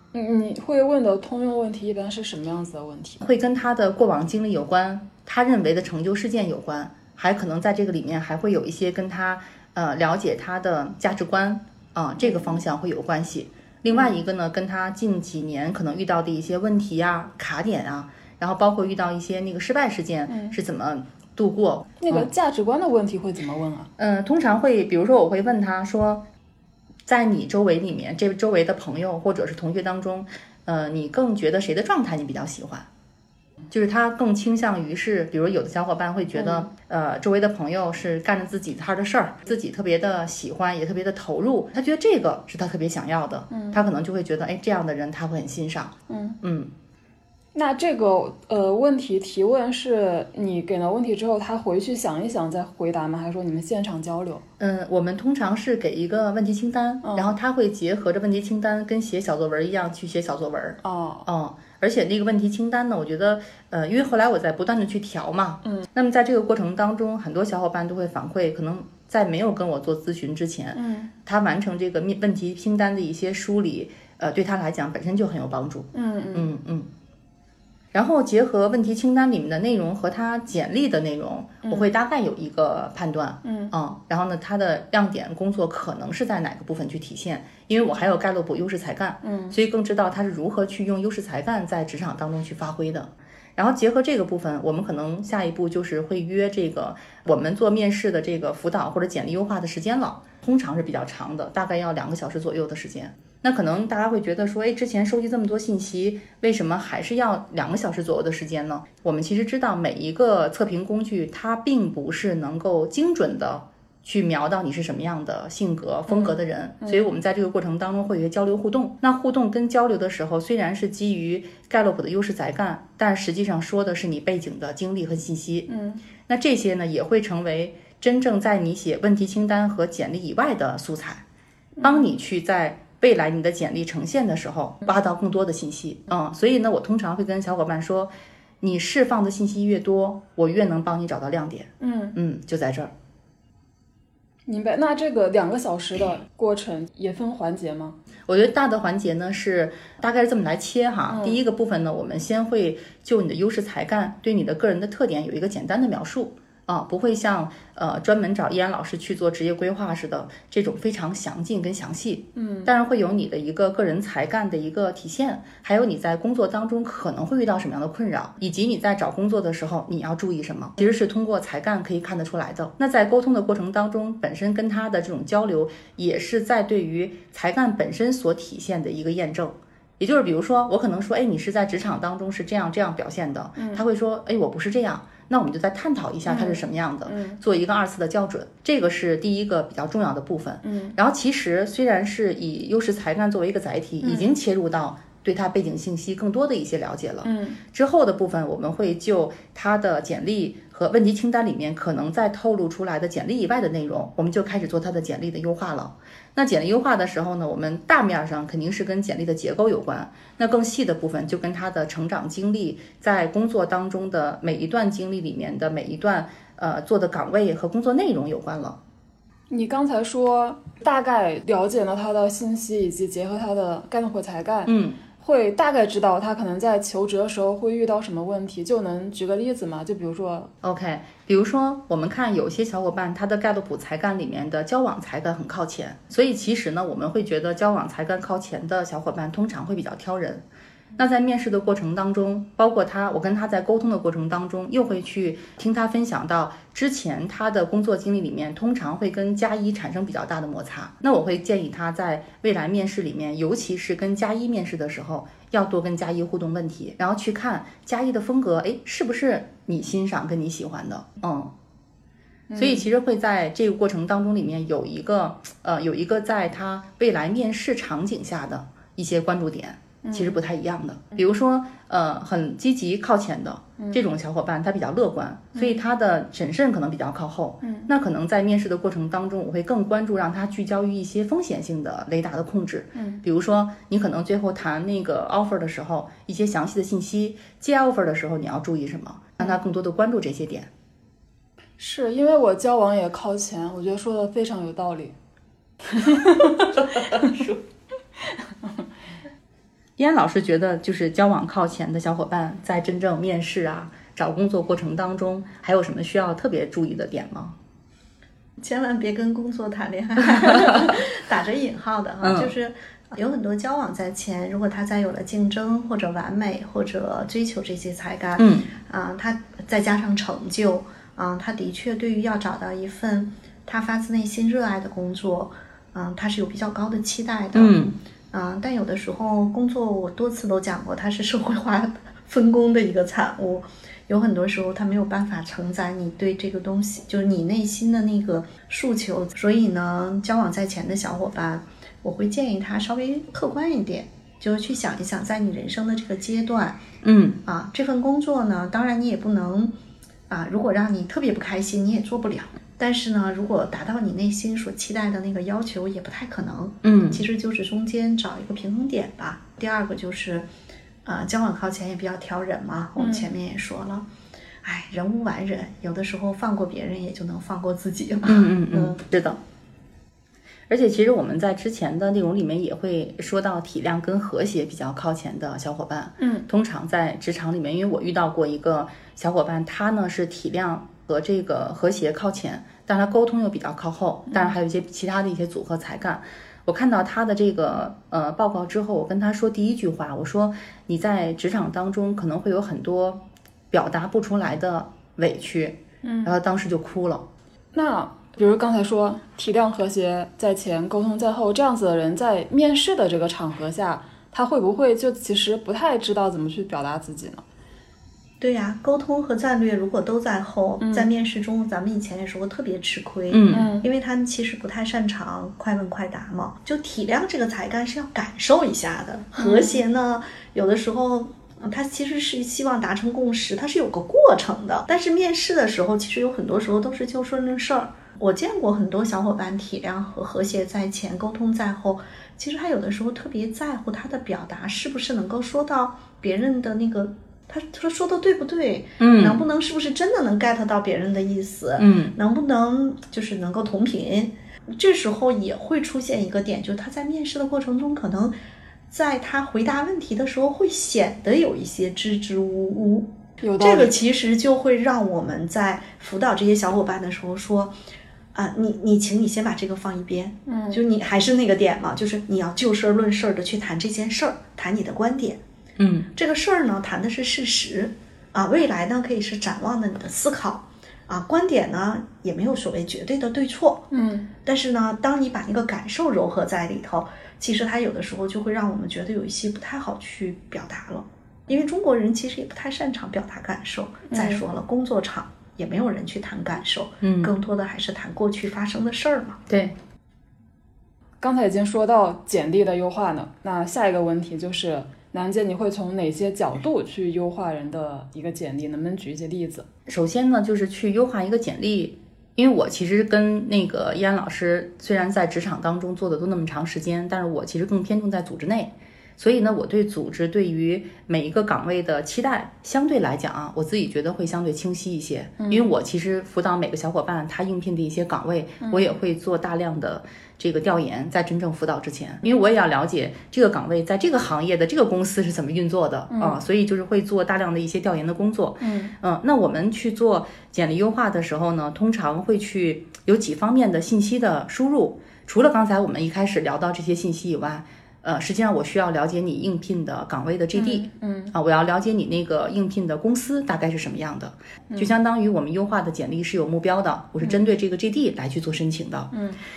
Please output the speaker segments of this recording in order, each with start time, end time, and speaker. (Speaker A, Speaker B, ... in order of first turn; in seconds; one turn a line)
Speaker A: 0.1-3.2
Speaker B: 3.2-22.3
Speaker A: 20.3-20.6
Speaker A: 22.0-23.9
Speaker B: 24.0-26.2
Speaker B: 27.1-32.9
Speaker B: 33.7-46.7
Speaker A: 36.4-36.7
Speaker A: 46.1-46.4
Speaker A: 47.5-54.4
Speaker B: 54.6-76.9
Speaker A: 57.0-57.3
Speaker A: 60.8-61.3
Speaker A: 70.8-71.1
Speaker A: 75.9-76.5
Speaker B: 77.9-125.7
Speaker A: 83.4-83.7
Speaker A: 89.2-89.5
Speaker A: 116.1-117.1
Speaker A: 125.7-126.0
Speaker B: 126.3-131.2
Speaker A: 131.8-132.1
Speaker B: 131.8-142.9
Speaker A: 141.8-142.2
Speaker A: 144.5-148.0
Speaker B: 148.3-218.8
Speaker A: 151.1-151.4
Speaker A: 162.4-162.7
Speaker A: 183.6-183.8
Speaker A: 186.3-187.4
Speaker A: 190.6-191.0
Speaker A: 194.0-194.3
Speaker A: 197.2-197.6
Speaker A: 219.5-230.5
Speaker B: 224.7-225.0
Speaker B: 230.6-240.4
Speaker B: 241.0-261.5
Speaker A: 262.5-262.9
Speaker B: 262.6-290.7
Speaker A: 270.0-270.4
Speaker A: 277.6-277.9
Speaker A: 282.9-283.2
Speaker A: 291.8-295.1
Speaker A: 296.0-297.4
Speaker B: 296.7-297.6
Speaker B: 300.0-307.6
Speaker C: 308.6-327.8
Speaker B: 312.2-312.5
Speaker B: 318.4-318.7
Speaker B: 327.5-327.9
Speaker C: 328.3-346.8
Speaker B: 347.0-347.4
Speaker C: 347.4-349.7
Speaker C: 350.3-360.5
Speaker B: 356.8-357.2
Speaker C: 361.1-364.1
Speaker A: 363.0-363.3
Speaker C: 364.6-369.0
Speaker B: 368.3-369.4
Speaker B: 370.7-397.2
Speaker A: 376.2-376.5
Speaker A: 396.0-396.3
Speaker A: 397.7-407.4
Speaker C: 408.4-448.4
Speaker A: 410.8-411.1
Speaker B: 413.3-413.7
Speaker A: 413.5-413.9
Speaker A: 419.4-419.8
Speaker B: 439.0-439.4
Speaker B: 441.8-442.1
Speaker C: 448.9-457.8
Speaker A: 453.4-453.9
Speaker C: 458.3-465.4
Speaker A: 460.5-460.8
Speaker B: 465.8-466.1
Speaker C: 466.1-473.9
Speaker A: 473.9-474.3
Speaker C: 474.4-489.4
Speaker A: 484.1-484.4
Speaker B: 487.0-487.3
Speaker B: 489.5-489.8
Speaker A: 491.2-499.7
Speaker B: 499.9-549.1
Speaker A: 515.4-515.7
Speaker A: 518.6-518.9
Speaker A: 526.1-526.4
Speaker A: 528.6-528.9
Speaker A: 540.5-541.3
Speaker A: 549.1-549.4